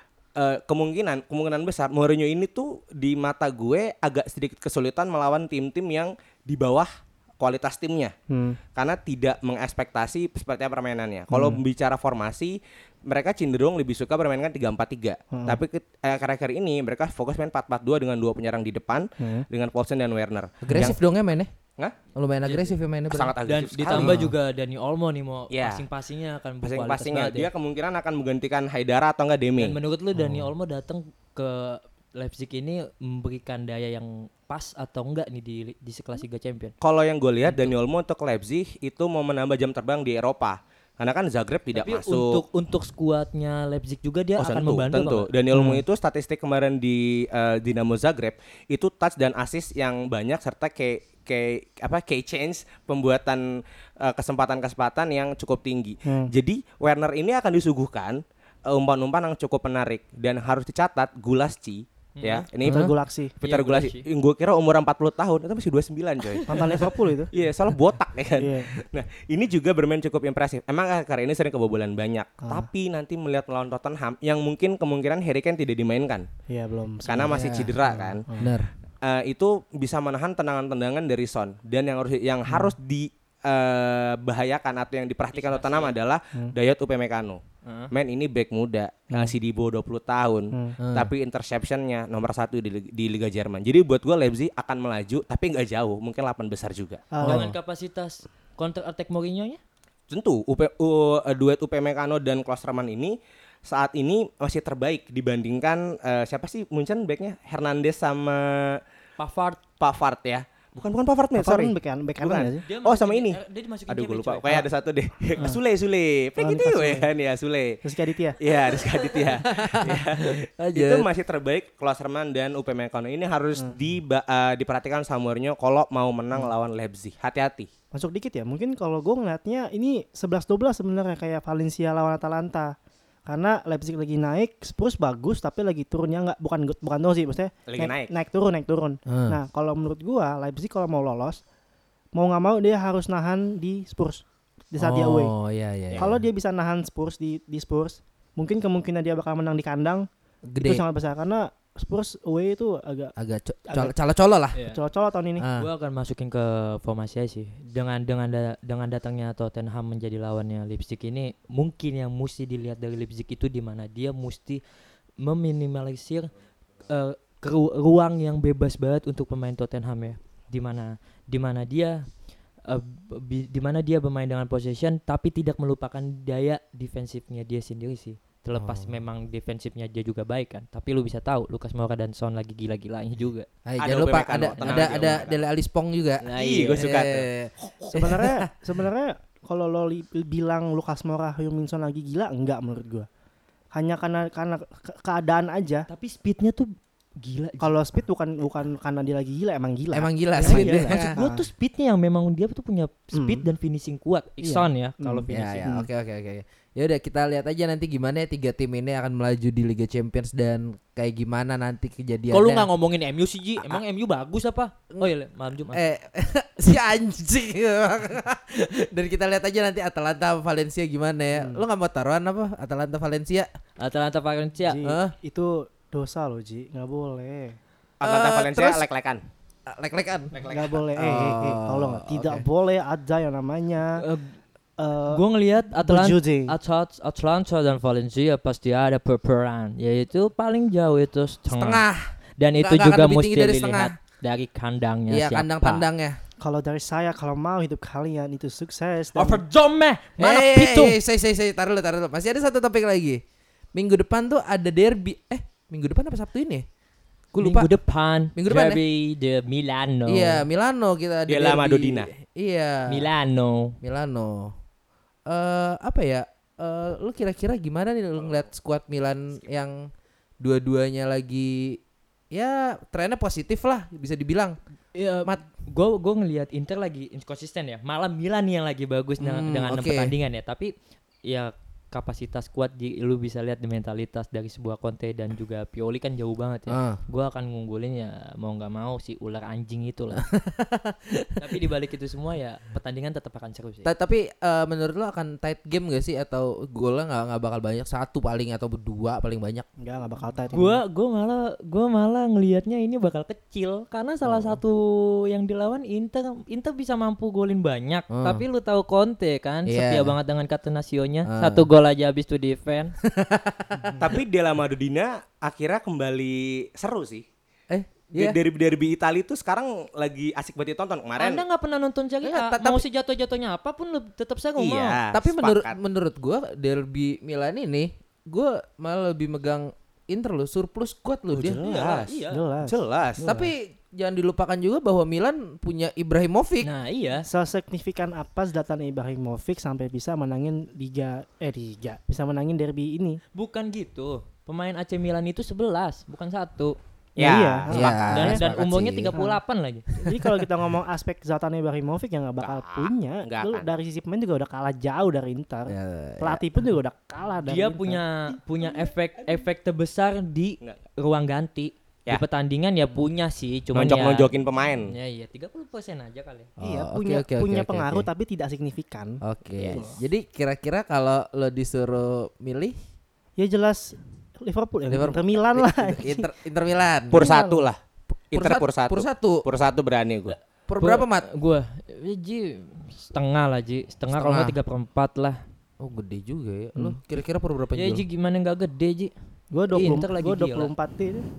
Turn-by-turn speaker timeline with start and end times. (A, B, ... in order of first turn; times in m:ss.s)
0:00.3-0:08.1 A
0:08.3-0:08.6 B
0:08.7-0:20.9 A
0:11.3-0:11.6 B
0:15.3-0:15.6 B
0:19.2-0:19.4 B
0:20.6-0:21.5 C
0:22.1-0:23.4 C
0:22.4-0:22.8 D
0:23.1-0:24.2 A
0:23.4-0:27.5 D
0:23.9-0:24.3 C
0:25.5-0:25.8 A
0:26.6-0:29.8 A
0:29.6-0:36.7 D
0:30.2-0:30.5 C
0:36.8-0:42.4 A
0:37.4-0:37.7 D
0:41.7-0:45.3 D
0:44.4-1:16.3 A
0:45.5-0:45.8 B
0:56.0-0:56.3 B
1:02.2-1:02.4 D
1:02.6-1:02.9 C
1:02.7-1:03.3 B
1:03.4-1:04.1 D
1:06.5-1:07.3 B
1:08.4-1:08.7 B
1:12.4-1:12.7 B
1:16.5-1:18.5 B
1:17.0-1:18.2 A
1:17.2-1:17.8 C
1:18.4-1:18.7 C
1:19.0-1:27.4 A
1:25.3-1:26.0 D
1:27.6-1:27.9 D
1:27.9-1:37.0 A
1:30.8-1:31.1 C
1:37.1-1:37.5 B
1:37.2-1:39.6 D
1:37.2-1:37.5 C
1:40.1-1:48.8 A
1:49.2-1:49.6 D
1:49.8-1:57.8 A
1:51.4-1:52.6 B
1:52.6-1:54.6 D
1:56.4-1:57.1 B
1:57.8-1:58.4 B
1:58.4-2:07.7 A
1:59.6-2:01.1 C
2:07.9-2:12.7 B
2:13.3-2:21.4 B
2:17.7-2:18.1 A
2:19.1-2:19.4 C
2:22.1-2:25.3 B
2:24.8-2:26.2 C
2:25.9-2:30.1 B
2:30.5-2:30.8 C
2:30.6-2:33.1 B
2:33.2-2:34.6 C
2:34.5-2:34.8 D
2:34.7-2:35.4 B
2:35.4-2:35.7 C
2:35.5-2:44.6 D
2:45.2-2:46.3 D
2:46.9-2:52.0 D
2:52.6-3:03.4 D
2:58.6-2:59.0 C
3:03.6-3:08.4 C
3:03.8-3:05.4 A
3:06.2-3:06.9 D
3:06.3-3:08.0 A
3:07.9-3:13.1 B
3:13.7-3:15.9 B
3:15.9-3:17.7 D
3:17.6-3:21.4 B
3:19.9-3:21.1 C
3:20.4-3:25.6 D
3:23.1-3:23.4 B
3:24.4-3:25.8 B
3:25.3-3:32.7 C
3:32.3-3:35.8 D
3:35.7-3:43.5 C
3:41.3-3:41.6 B
3:43.8-3:44.8 D
3:44.7-3:47.6 B
3:44.8-3:45.1 C
3:48.0-3:49.2 A
3:48.0-3:48.9 C
3:49.7-3:50.4 C
3:50.3-3:50.8 A
3:50.5-3:54.0 B
3:50.9-3:52.4 C
3:54.0-3:54.4 D
3:54.8-3:55.2 B
3:55.1-4:01.8 D
3:55.8-3:56.5 B
4:01.5-4:03.9 C
4:02.4-4:05.8 D
4:05.1-4:06.2 C
4:06.4-4:09.4 B
4:09.1-4:11.0 D
4:10.2-4:13.2 C
4:13.7-4:16.6 C
4:17.3-4:17.7 C
4:17.4-4:20.4 D
4:18.3-4:18.8 C
4:20.1-4:23.1 C
4:21.3-4:22.1 A
4:22.9-4:23.8 D
4:23.8-4:24.5 C
4:25.3-4:29.9 C
4:30.4-4:31.8 C
4:32.3-4:34.6 C
4:34.9-4:40.7 D
4:39.2-4:40.2 C
4:41.3-4:50.2 D
4:46.7-4:47.0 C
4:50.2-4:51.6 C
4:51.4-4:53.9 D
4:53.8-4:59.7 C
4:59.8-5:00.8 B
5:00.5-5:12.9 D
5:04.2-5:04.6 C
5:08.1-5:08.4 C
5:09.6-5:10.2 C
5:11.2-5:11.7 C
5:13.0-5:14.0 C
5:14.0-5:17.2 A
5:17.7-5:18.4 C
5:18.1-5:21.4 A
5:21.2-5:25.0 D
5:22.2-5:22.8 C
5:24.6-5:25.7 A
5:25.1-5:31.6 C
5:31.3-5:33.2 A
5:31.6-5:32.4 D
5:32.2-5:33.5 B
5:33.2-5:36.7 C
5:36.6-5:37.2 D
5:37.2-5:43.2 B
5:43.3-5:46.8 D
5:47.2-5:47.7 A
5:47.2-5:48.4 B
5:47.7-5:49.2 C
5:48.1-5:49.9 D
5:49.1-5:49.4 B
5:50.0-5:58.4 B
5:50.0-5:50.4 C
5:52.4-5:53.7 A
5:55.7-5:56.6 C
5:57.4-6:06.5 D
6:03.7-6:04.9 A
6:06.6-6:08.1 C
6:06.6-6:10.0 B
6:09.2-6:12.8 C
6:13.4-6:16.3 B
6:14.9-6:17.3 C
6:17.1-6:17.6 B
6:17.1-6:17.8 A
6:18.3-6:20.4 A
6:18.3-6:19.4 C
6:20.7-6:21.3 C
6:20.8-6:25.4 D
6:24.1-6:24.5 C
6:25.8-6:28.0 C
6:27.7-6:29.1 D
6:29.5-6:31.2 B
6:29.7-6:30.7 D